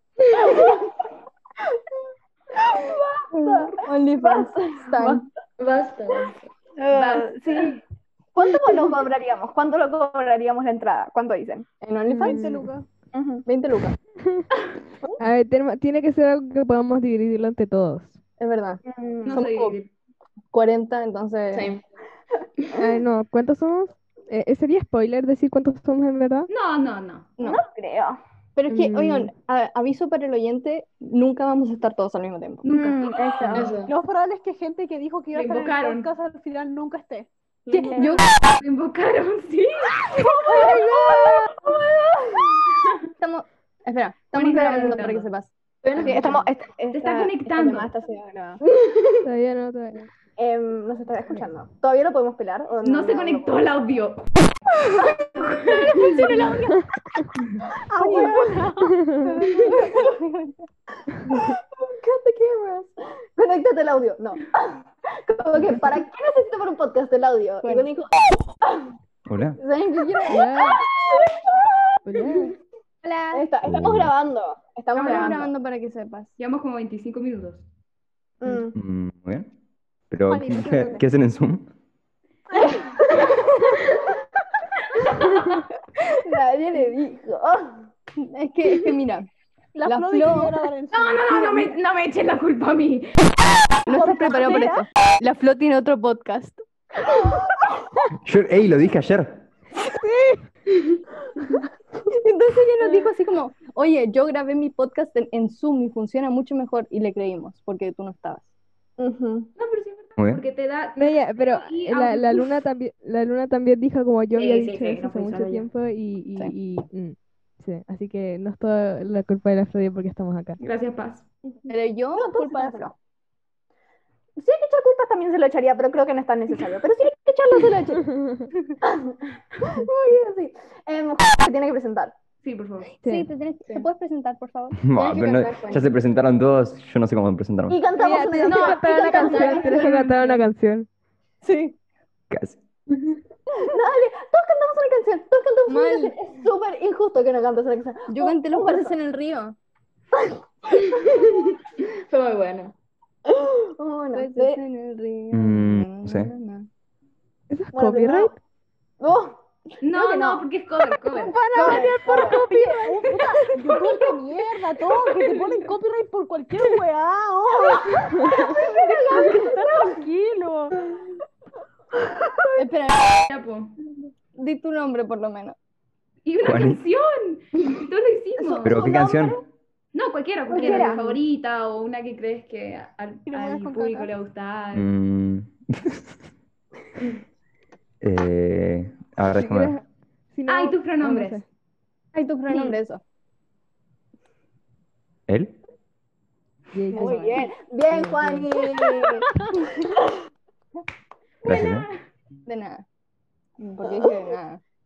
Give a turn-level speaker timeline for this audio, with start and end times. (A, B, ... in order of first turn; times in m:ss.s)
0:00.3-0:00.9 A
0:02.5-0:04.5 A
0:03.3-0:05.2 B
0:05.6-0:06.3 C
0:06.9-0:07.8 A
0:06.9-0:07.3 D
0:08.4-0:11.7 A
0:11.8-0:12.5 B
0:12.1-0:12.6 E
0:12.2-0:12.8 F
0:13.1-0:13.4 A
0:13.4-0:14.0 B
0:15.2-0:18.2 E
0:18.4-0:19.8 B
0:18.8-0:19.4 A
0:19.2-0:19.9 D
0:20.5-0:21.7 B
0:21.5-0:21.8 C
0:22.7-0:26.5 E
0:26.5-0:27.3 D
0:27.4-0:28.2 A
0:28.6-0:32.9 B
0:28.7-0:29.3 E
0:32.6-0:33.6 D
0:32.7-0:33.7 A
0:33.5-0:33.9 C
0:33.9-0:37.3 F
0:35.3-0:36.1 D
0:37.7-0:40.5 D
0:37.7-0:38.2 B
0:40.2-0:42.6 A
0:40.5-0:41.4 B
0:43.2-0:46.1 B
0:44.3-0:45.3 D
0:44.6-0:45.0 A
0:45.8-0:46.4 C
0:45.9-0:48.6 A
0:46.9-0:47.9 D
0:49.2-0:50.1 E
0:50.4-0:53.6 A
0:52.8-0:54.3 D
0:55.0-0:56.4 A
0:55.3-0:56.2 D
0:55.9-0:56.9 F
0:57.9-0:59.0 F
0:58.0-0:58.7 A
0:58.9-0:59.3 E
0:59.2-1:00.6 B
0:59.4-1:00.1 A
1:01.4-1:08.9 A
1:07.6-1:07.9 B
1:09.3-1:09.6 G
1:09.6-1:12.0 A
1:09.6-1:10.6 B
1:10.3-1:10.8 E
1:12.0-1:12.5 E
1:13.3-1:15.5 A
1:13.6-1:14.1 G
1:14.9-1:15.5 D
1:15.0-1:16.3 B
1:16.4-1:17.6 D
1:18.4-1:18.7 A
1:18.7-1:19.5 G
1:20.1-1:21.6 G
1:20.3-1:21.0 F
1:24.9-1:25.6 D
1:26.1-1:27.9 A
1:28.2-1:29.3 B
1:29.7-1:31.7 F
1:29.8-1:30.5 B
1:30.9-1:33.3 D
1:33.9-1:34.8 F
1:33.9-1:36.6 B
1:34.3-1:34.7 A
1:38.2-1:39.4 G
1:39.9-1:40.3 E
1:42.1-1:48.5 B
1:49.0-1:49.5 A
1:49.6-1:52.5 D
1:50.2-1:50.4 G
1:51.0-2:00.6 E
1:54.3-1:55.7 D
2:00.6-2:01.2 D
2:01.7-2:02.9 B
2:02.1-2:02.9 A
2:04.4-2:08.1 A
2:08.0-2:08.5 E
2:08.8-2:12.1 A
2:12.4-2:12.9 D
2:13.0-2:13.3 E
2:13.0-2:15.7 B
2:14.8-2:17.8 G
2:15.0-2:15.8 C
2:17.7-2:20.0 A
2:17.9-2:20.9 E
2:18.4-2:20.4 D
2:21.4-2:21.7 B
2:22.3-2:22.6 G
2:23.6-2:28.9 A
2:25.6-2:26.1 B
2:28.1-2:29.6 B
2:30.9-2:31.4 A
2:31.8-2:32.7 C
2:33.3-2:34.6 A
2:34.1-2:36.7 B
2:35.3-2:36.3 G
2:37.5-2:38.3 E
2:37.7-2:38.3 A
2:39.0-2:39.4 A
2:39.8-2:42.4 D
2:39.9-2:40.4 A
2:41.1-2:48.3 F
2:41.5-2:42.4 A
2:48.2-2:50.0 A
2:48.8-2:50.8 F
2:52.6-2:53.0 B
2:53.3-2:53.7 D
2:54.4-2:55.6 B
2:56.2-2:58.9 D
2:56.4-2:56.8 G
2:58.4-2:59.4 A
2:58.6-2:59.4 G
2:59.9-3:04.9 D
3:00.5-3:01.1 A
3:00.5-3:01.1 B
3:03.3-3:04.1 F
3:04.7-3:06.0 G
3:08.0-3:09.8 G
3:09.3-3:11.4 E
3:10.5-3:11.4 D
3:12.1-3:13.0 B
3:15.3-3:15.5 G
3:16.7-3:18.4 E
3:16.9-3:17.4 B
3:16.9-3:19.3 A
3:21.4-3:21.9 D
3:21.4-3:21.9 G
3:22.4-3:22.8 B
3:23.6-3:24.6 B